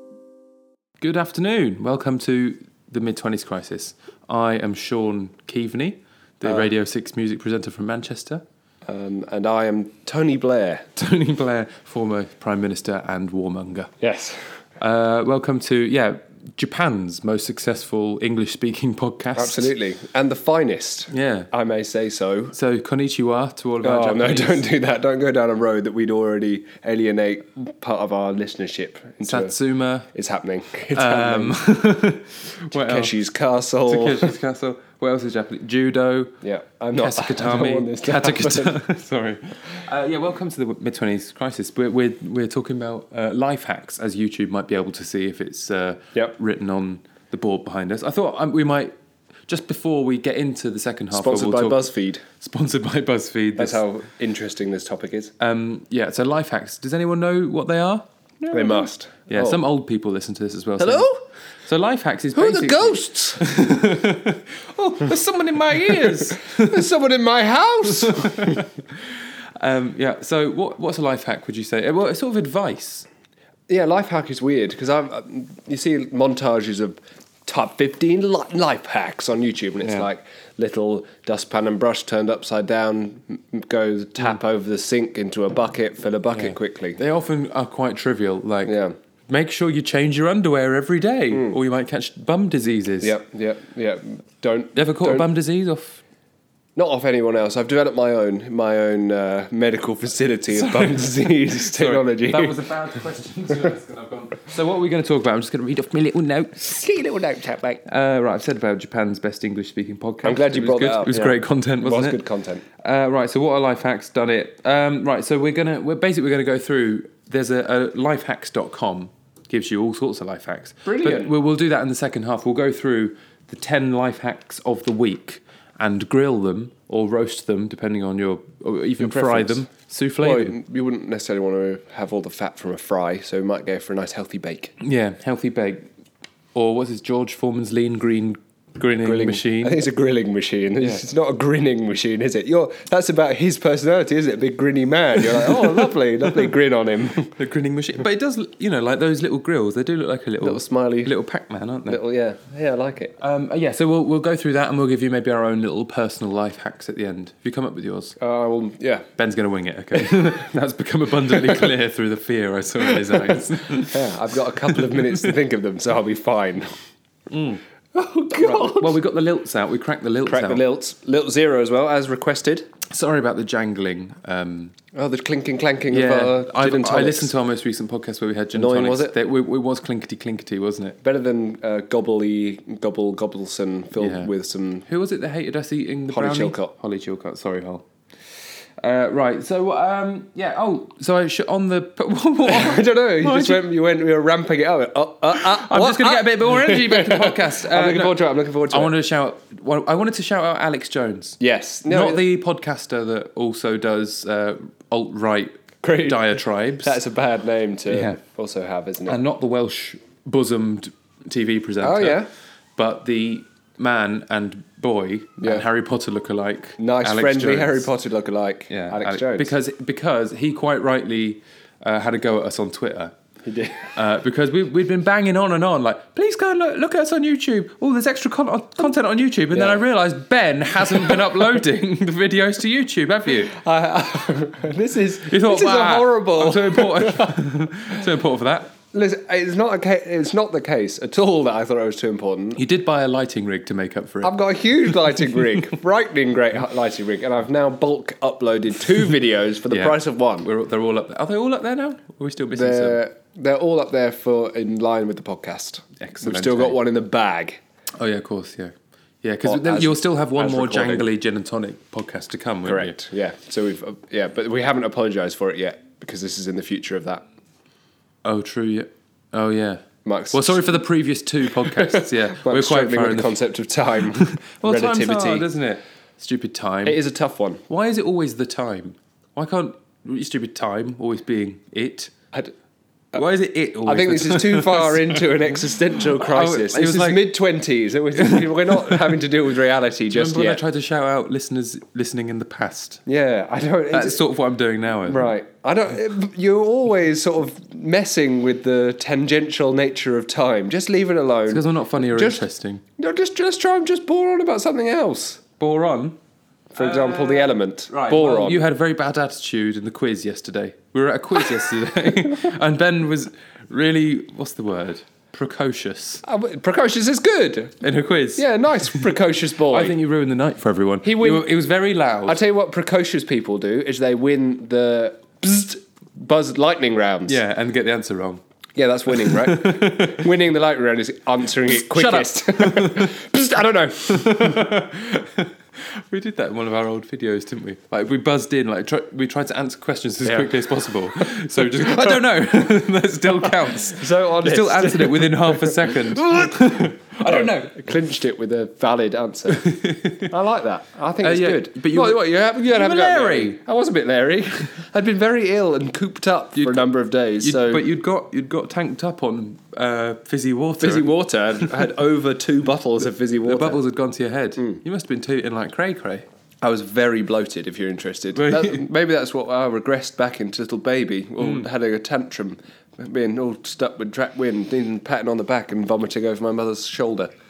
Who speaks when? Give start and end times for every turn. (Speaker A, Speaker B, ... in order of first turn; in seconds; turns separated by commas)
Speaker A: 1.0-8.4, Speaker B: 6.4-6.7, Speaker B: 8.8-10.8, Speaker A: 10.9-13.9, Speaker B: 14.0-14.4, Speaker A: 14.8-19.7, Speaker B: 19.4-22.5, Speaker A: 21.1-21.5, Speaker A: 22.5-24.6, Speaker B: 23.8-29.5, Speaker A: 29.2-30.1, Speaker B: 30.1-31.6, Speaker A: 30.9-33.1, Speaker B: 32.7-34.3, Speaker A: 33.9-36.3, Speaker B: 36.4-38.8, Speaker A: 37.0-48.9, Speaker A: 49.5-51.9, Speaker B: 51.1-52.2, Speaker A: 52.4-53.8, Speaker B: 53.6-55.3, Speaker A: 55.4-61.1, Speaker B: 58.5-59.6, Speaker B: 60.8-61.2, Speaker A: 61.6-66.8, Speaker B: 62.3-63.4, Speaker B: 66.1-68.6, Speaker A: 67.9-69.0, Speaker A: 69.6-73.1, Speaker B: 73.7-87.0, Speaker A: 86.3-88.8, Speaker B: 88.7-88.9, Speaker A: 89.3-93.2, Speaker B: 93.0-95.2, Speaker A: 94.7-96.0, Speaker B: 96.8-102.6, Speaker A: 100.5-106.8, Speaker B: 106.7-107.8, Speaker A: 107.8-112.2, Speaker B: 110.2-112.6, Speaker A: 112.8-130.6, Speaker B: 120.8-121.3, Speaker B: 129.0-129.7, Speaker B: 130.2-134.7, Speaker A: 134.8-135.9, Speaker A: 136.5-139.8, Speaker B: 139.0-147.3, Speaker A: 147.3-152.0, Speaker B: 150.4-151.1, Speaker B: 151.9-153.1, Speaker A: 153.2-158.2, Speaker B: 158.2-159.1, Speaker A: 159.2-165.3, Speaker B: 161.4-161.7, Speaker B: 162.9-166.7, Speaker A: 167.3-167.6, Speaker B: 167.9-168.9, Speaker A: 168.3-170.6, Speaker B: 170.2-172.7, Speaker A: 172.9-174.7, Speaker B: 174.9-177.3, Speaker A: 175.9-181.0, Speaker B: 178.5-179.1, Speaker B: 181.0-184.8, Speaker A: 184.0-184.3, Speaker A: 184.9-187.8, Speaker B: 186.1-186.7, Speaker A: 188.8-193.6, Speaker B: 192.4-198.9, Speaker A: 195.3-198.2, Speaker A: 198.7-207.0, Speaker B: 201.4-202.2, Speaker B: 205.8-209.2, Speaker A: 207.9-208.2, Speaker A: 209.1-212.2, Speaker B: 211.8-212.3, Speaker A: 212.8-217.9, Speaker B: 216.8-219.5, Speaker A: 218.7-223.1, Speaker B: 223.4-223.9, Speaker A: 223.9-233.5, Speaker B: 229.5-229.8, Speaker B: 230.8-231.3, Speaker B: 233.5-237.4, Speaker A: 235.2-238.7, Speaker B: 238.9-242.6, Speaker A: 242.5-244.3, Speaker B: 244.2-250.5, Speaker A: 244.9-245.4, Speaker A: 249.7-253.0, Speaker B: 252.5-257.6, Speaker A: 256.0-256.8, Speaker A: 258.0-263.0, Speaker B: 259.4-261.1, Speaker B: 262.6-267.2, Speaker A: 268.2-273.4, Speaker B: 270.0-270.8, Speaker B: 271.6-275.4, Speaker A: 274.1-277.0, Speaker B: 276.9-277.6, Speaker A: 277.7-282.1, Speaker A: 283.1-287.3, Speaker B: 283.8-290.6, Speaker A: 288.2-289.1, Speaker A: 290.1-293.0, Speaker B: 293.1-294.2, Speaker A: 293.9-295.3, Speaker B: 295.1-302.4, Speaker A: 301.5-302.8, Speaker B: 303.0-305.4, Speaker A: 305.6-306.2, Speaker B: 306.7-308.6, Speaker A: 306.8-316.2, Speaker B: 316.2-317.8, Speaker A: 317.8-319.1, Speaker B: 318.4-320.0, Speaker A: 319.7-322.4, Speaker B: 321.0-321.5, Speaker B: 322.2-327.4, Speaker A: 327.2-328.4, Speaker B: 328.8-334.9, Speaker A: 329.1-330.3, Speaker A: 331.7-333.1, Speaker A: 334.1-347.8, Speaker B: 340.2-342.2, Speaker B: 343.3-357.8, Speaker A: 349.5-350.3, Speaker A: 351.2-353.6, Speaker A: 356.6-356.8, Speaker A: 357.4-361.7, Speaker B: 360.8-363.8, Speaker A: 363.4-366.2, Speaker B: 366.6-377.3, Speaker A: 368.3-368.9, Speaker A: 371.4-371.6